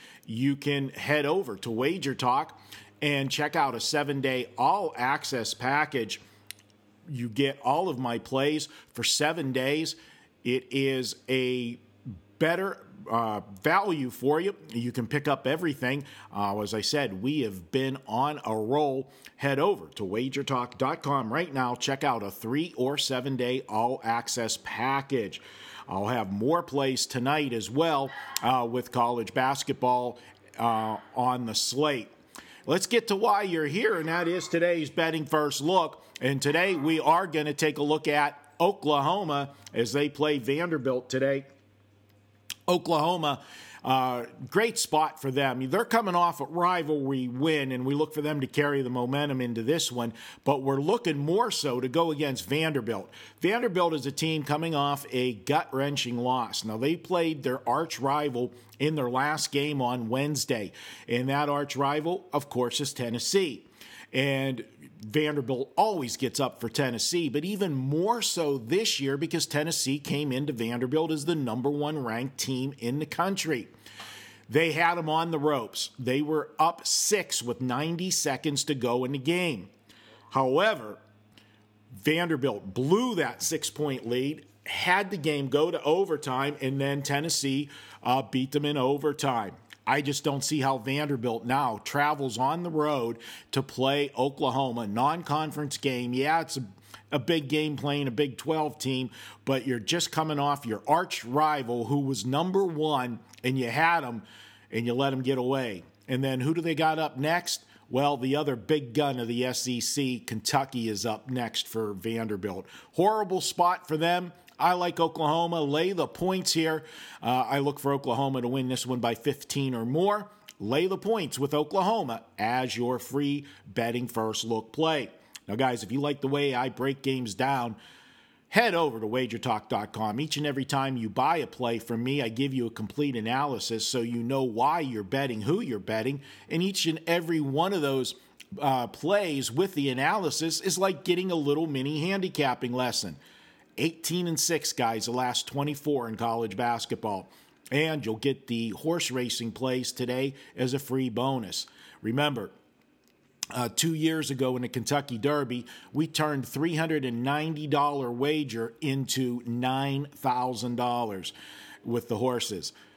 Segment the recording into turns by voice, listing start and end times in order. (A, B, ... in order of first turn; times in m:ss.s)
0:00.2-0:06.2 A
0:07.1-0:11.8 A
0:12.4-0:32.1 A
0:32.7-0:41.5 A
0:42.7-1:13.7 A
1:14.5-1:19.7 A
1:20.3-1:21.0 A
1:21.9-2:07.8 A
2:08.5-2:23.2 A
2:23.8-2:32.5 A
2:33.5-2:42.7 A